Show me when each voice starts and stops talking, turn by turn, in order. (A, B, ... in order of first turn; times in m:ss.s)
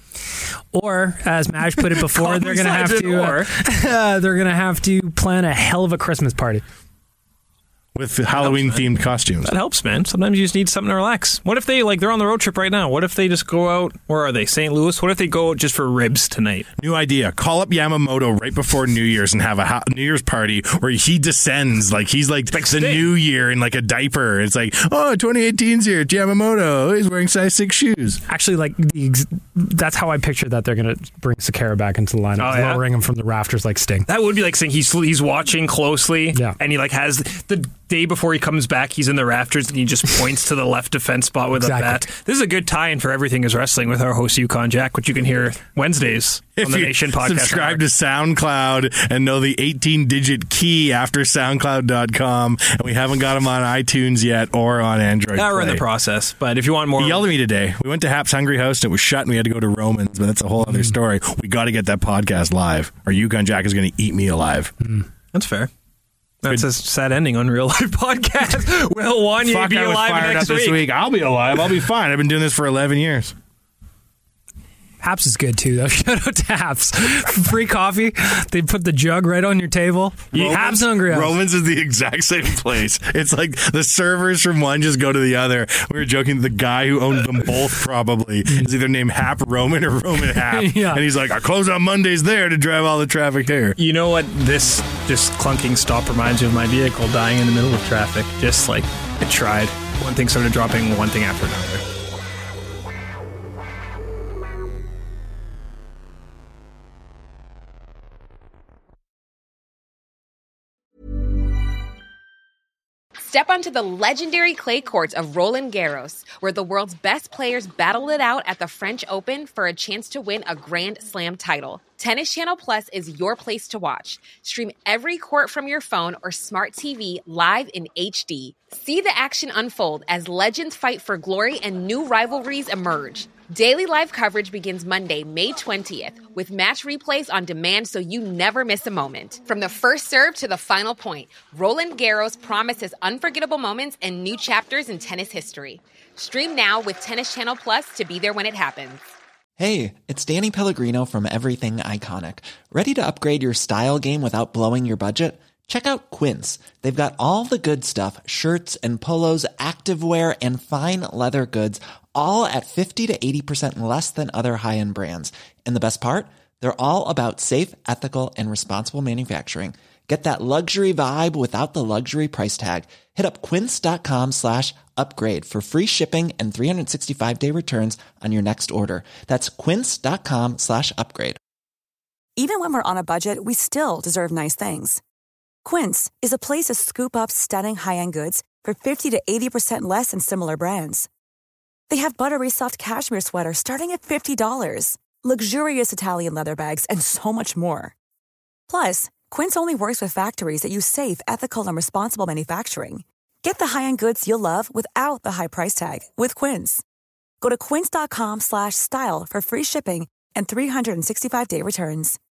0:00.7-0:06.6 A
0:02.1-0:03.5 B
0:08.0-0:09.5 C
0:08.4-0:08.9 B
0:09.4-0:16.7 B
0:16.8-0:28.2 C
0:22.5-0:23.1 B
0:28.3-0:34.1 A
0:32.4-0:32.8 B
0:34.1-0:47.8 B
0:41.6-0:42.1 A
0:46.6-0:55.8 C
0:55.4-0:57.3 B
0:57.0-1:04.8 C
1:05.3-1:05.7 B
1:06.4-1:10.9 B
1:09.4-1:13.4 C
1:15.0-1:21.3 A
1:20.3-1:33.8 C
1:30.4-1:31.0 A
1:33.8-1:41.8 B
1:53.2-2:29.0 D
2:29.6-3:01.4 E
3:02.4-3:05.0 F
3:05.6-3:11.1 F
3:11.9-3:17.9 F
3:18.7-3:26.8 F
3:27.4-3:32.2 F